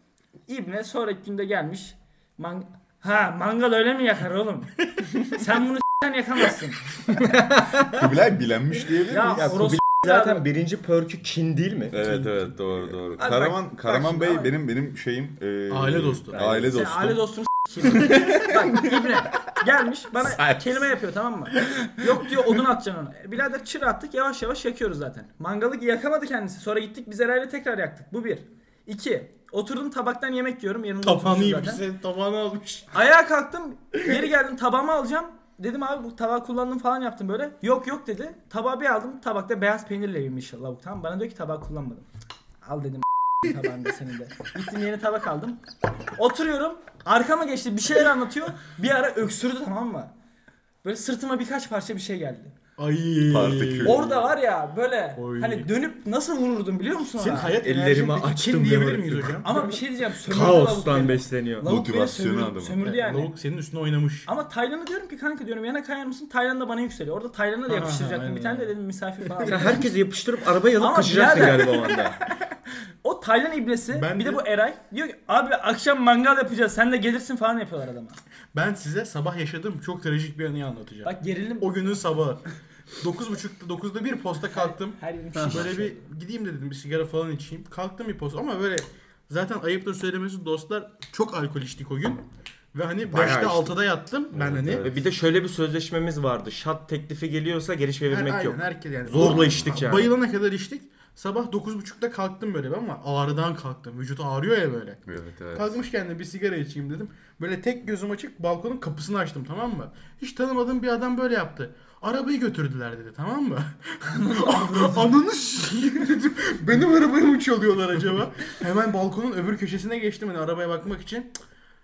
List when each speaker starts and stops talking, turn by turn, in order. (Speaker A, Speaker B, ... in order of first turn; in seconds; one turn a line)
Speaker A: 0.5-6.8
Speaker B: 7.1-8.0
Speaker C: 7.8-9.8
Speaker A: 9.1-10.4
Speaker B: 9.3-12.0
Speaker C: 11.9-17.2
Speaker D: 12.0-12.3
Speaker A: 13.2-14.5
Speaker D: 15.7-16.5
Speaker B: 16.3-16.7
Speaker A: 16.7-31.8
Speaker C: 17.8-19.1
Speaker C: 20.2-20.9
Speaker D: 31.0-32.9
Speaker A: 32.9-42.1
Speaker A: 42.6-45.6
Speaker A: 46.1-50.1
Speaker A: 50.8-52.5
Speaker D: 52.8-54.2
Speaker C: 53.3-54.1
Speaker A: 53.8-57.6
Speaker D: 55.1-55.7
Speaker D: 57.2-59.6
Speaker B: 57.5-61.7
Speaker A: 59.4-63.3
Speaker C: 61.6-62.8
Speaker D: 62.8-64.3
Speaker A: 64.2-69.8
Speaker D: 67.7-68.7
Speaker D: 69.3-69.8
Speaker B: 69.5-72.2
Speaker A: 70.8-72.0
Speaker A: 73.0-78.2
Speaker D: 73.9-74.4
Speaker D: 78.5-82.4
Speaker A: 81.0-82.0
Speaker D: 83.0-92.2
Speaker A: 84.5-86.0
Speaker D: 92.7-94.8
Speaker B: 93.1-93.7
Speaker C: 94.4-95.0
Speaker B: 94.4-100.1
Speaker D: 98.1-105.0
Speaker C: 99.1-99.7
Speaker C: 105.1-105.8
Speaker D: 105.5-121.3
Speaker A: 114.1-115.0